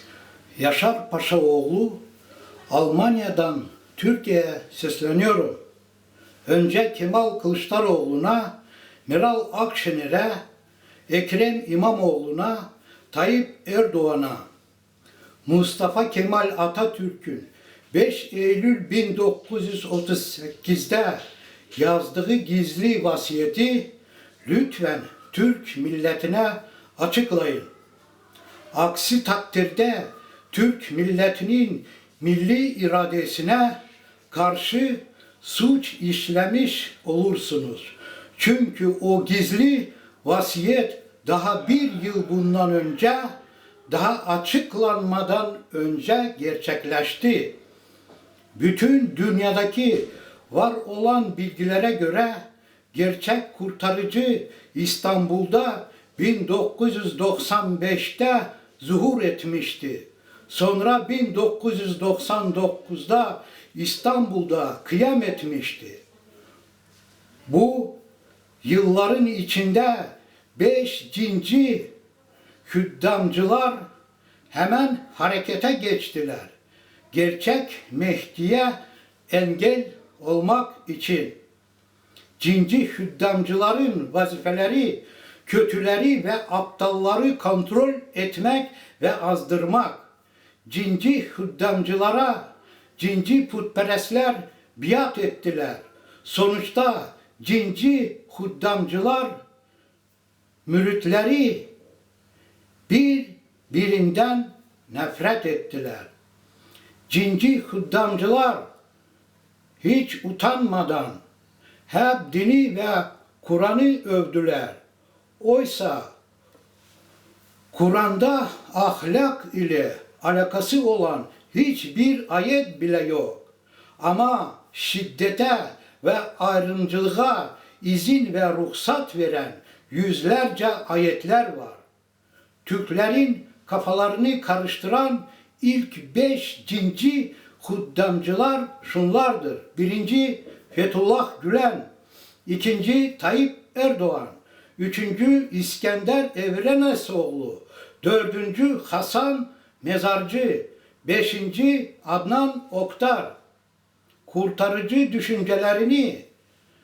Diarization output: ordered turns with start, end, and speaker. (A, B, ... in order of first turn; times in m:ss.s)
0:00.6-0:02.0 A
0:02.7-0:05.6 A
0:06.4-0:08.5 A
0:09.0-0:10.4 A
0:11.1-0:14.4 A
0:15.4-0:21.2 A
0:21.7-0:23.9 A
0:24.4-0:27.7 A
0:28.7-0:33.8 A
0:34.3-0:43.3 A
0:43.9-0:47.5 A
0:48.6-1:06.0 A
1:07.5-1:08.0 A
1:08.6-1:11.9 A
1:12.6-1:13.8 A
1:14.5-1:16.5 A
1:17.1-1:18.8 A
1:19.3-1:21.3 A
1:22.4-1:30.0 A
1:30.6-1:32.4 A
1:33.0-1:39.4 A
1:40.6-1:41.7 A
1:42.9-1:46.1 A
1:47.1-1:48.6 A
1:49.8-1:51.2 A
1:51.9-1:54.8 A
1:55.4-1:56.1 A
1:57.7-2:03.4 A
2:04.0-2:11.8 A
2:12.6-2:21.8 A
2:22.4-2:33.3 A
2:34.2-2:36.2 A